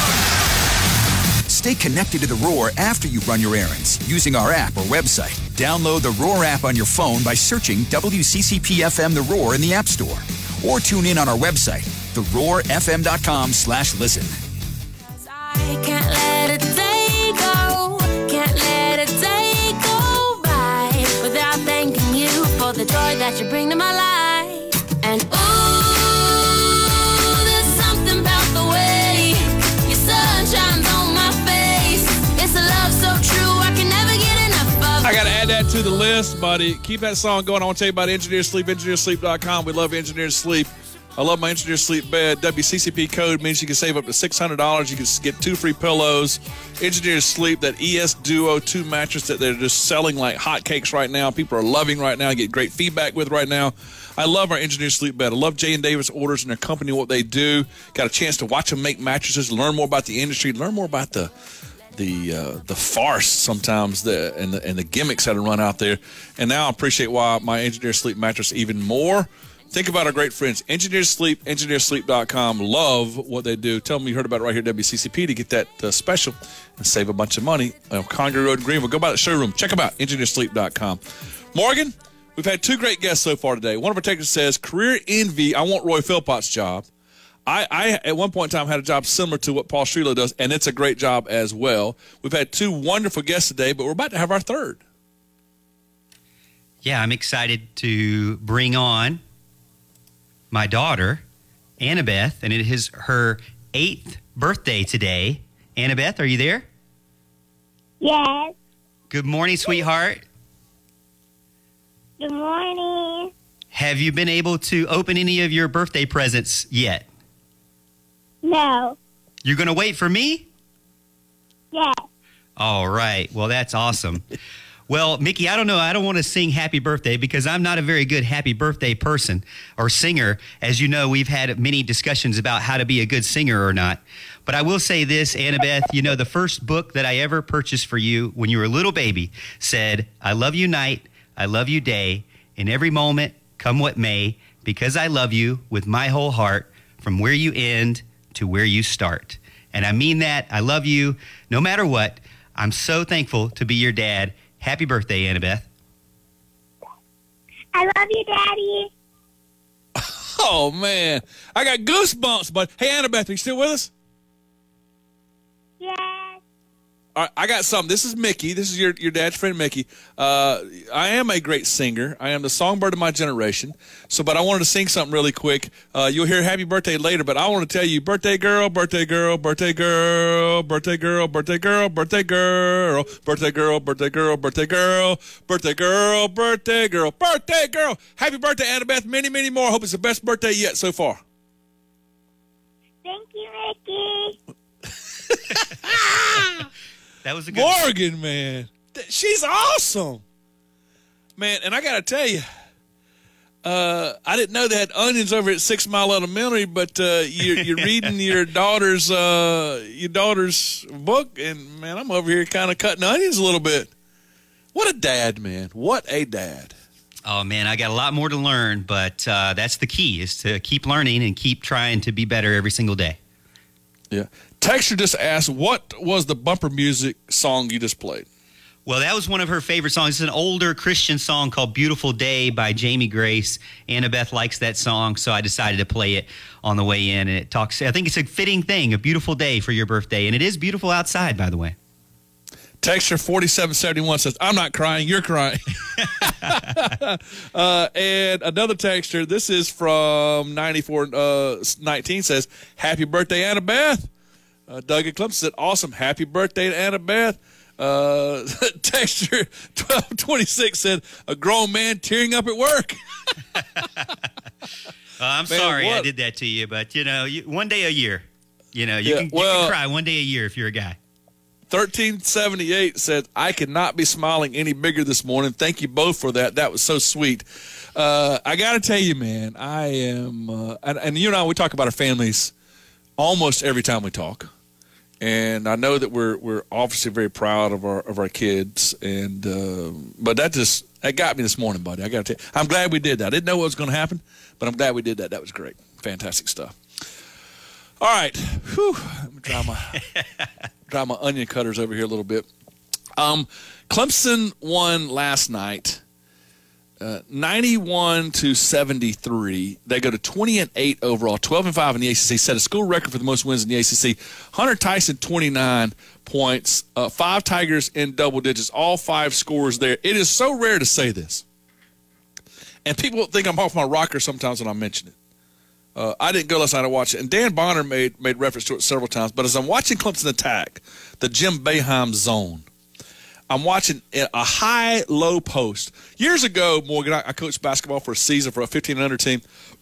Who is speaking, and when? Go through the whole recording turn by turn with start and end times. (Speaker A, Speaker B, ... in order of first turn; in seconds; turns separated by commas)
Speaker A: 1.5-14.3, Speaker B: 15.2-35.3, Speaker C: 35.0-61.3, Speaker C: 62.0-81.0, Speaker C: 81.5-86.8, Speaker C: 87.5-94.8, Speaker D: 96.8-99.2, Speaker D: 100.5-101.2, Speaker D: 101.8-106.7, Speaker E: 108.0-108.5, Speaker D: 109.1-110.2, Speaker E: 112.2-113.3, Speaker D: 113.7-117.0, Speaker E: 118.4-119.0, Speaker D: 119.4-120.5, Speaker E: 121.7-122.0, Speaker D: 122.6-124.2, Speaker D: 124.9-155.7, Speaker E: 157.7-158.9, Speaker C: 159.9-163.9, Speaker E: 165.8-166.4, Speaker C: 167.1-191.2, Speaker E: 193.0-194.3, Speaker C: 195.9-196.6, Speaker D: 197.2-197.8, Speaker C: 197.5-200.2, Speaker C: 201.4-202.4, Speaker C: 203.6-213.9, Speaker D: 207.6-207.9, Speaker C: 214.7-216.7, Speaker D: 217.3-223.2, Speaker C: 224.1-228.2, Speaker D: 228.8-241.7, Speaker C: 242.8-254.1, Speaker C: 254.7-263.0, Speaker D: 265.2-271.0, Speaker C: 265.5-266.1, Speaker C: 269.0-269.8, Speaker C: 271.7-282.5, Speaker C: 283.2-284.5, Speaker C: 285.2-296.7, Speaker C: 298.0-300.0, Speaker C: 300.9-302.5, Speaker C: 303.2-306.0, Speaker C: 307.0-321.4, Speaker C: 322.9-325.1, Speaker C: 325.9-332.6, Speaker C: 333.5-339.4